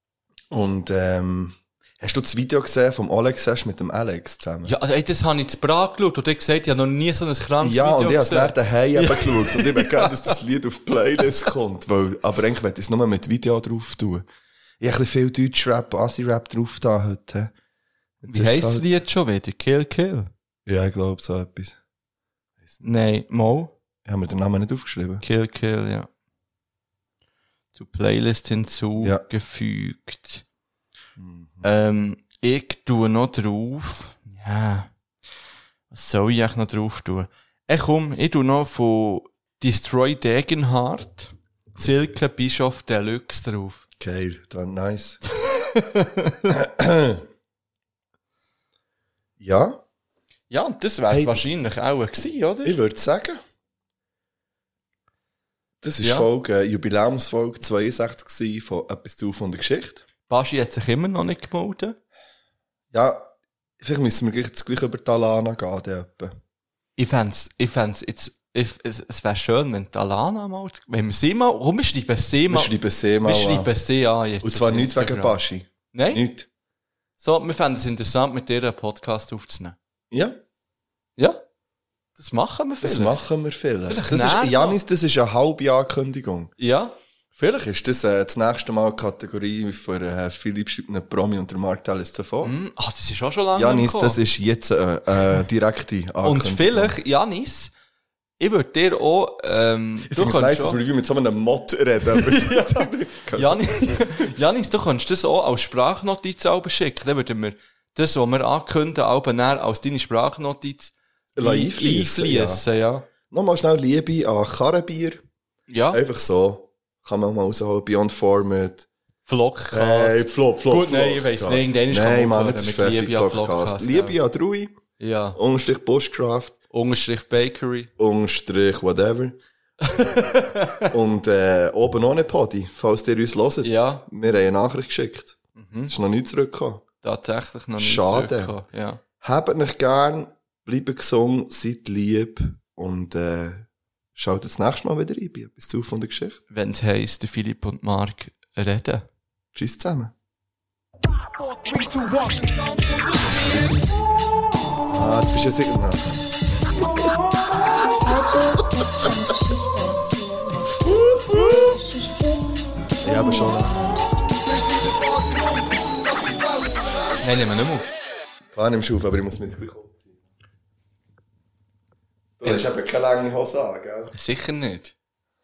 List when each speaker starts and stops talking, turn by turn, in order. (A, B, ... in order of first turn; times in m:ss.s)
0:00.5-0:04.7 A
0:04.6-0:10.4 B
0:07.6-0:14.2 A
0:14.8-0:17.5 A
0:18.2-0:18.9 A
0:18.3-0:20.3 B
0:20.6-0:21.8 A
0:22.8-0:23.7 B
0:24.0-0:25.2 A
0:25.2-0:26.1 B
0:27.7-0:30.4 B
0:31.2-0:31.7 A
0:31.6-0:34.9 B
0:35.9-0:43.8 B
0:44.0-0:45.2 A
0:45.6-0:46.5 B
0:46.5-0:47.2 A
0:49.4-0:49.8 A
0:50.5-0:52.8 B
0:51.1-0:51.4 A
0:52.6-0:53.4 A
0:55.8-1:00.0 A
0:56.0-0:56.3 B
1:00.3-1:02.0 B
1:02.9-1:06.3 A
1:07.0-1:15.4 B
1:12.5-1:13.7 A
1:14.4-1:16.5 A
1:15.9-1:16.2 B
1:17.2-1:19.8 B
1:20.1-1:20.4 A
1:22.2-1:23.2 B
1:22.8-1:26.5 A
1:23.9-1:24.8 B
1:26.6-1:26.9 B
1:27.4-1:32.6 A
1:32.4-1:34.2 B
1:33.5-1:37.0 A
1:36.2-1:37.7 B
1:38.4-1:40.8 B
1:40.1-1:43.6 A
1:42.1-1:53.1 B
1:51.4-1:52.6 A
1:53.3-1:55.2 A
1:55.7-1:56.0 B
1:55.9-1:58.9 A
1:59.2-2:04.2 B
1:59.7-2:04.7 A
2:05.0-2:05.4 B
2:05.3-2:06.6 A
2:06.7-2:07.9 B
2:08.0-2:09.4 A
2:09.8-2:10.9 B
2:10.1-2:16.8 A
2:13.6-2:14.0 B
2:15.6-2:15.9 B
2:17.0-2:19.0 B
2:17.8-2:18.5 A
2:19.2-2:26.4 A
2:26.5-2:29.1 B
2:29.5-2:30.1 A
2:32.4-2:33.0 C
2:34.9-2:36.1 A
2:38.0-2:44.0 C
2:41.3-2:41.7 A
2:43.0-2:44.0 A
2:47.2-2:47.9 B
2:48.5-2:50.2 A
2:52.4-2:54.1 A
2:54.1-2:54.9 B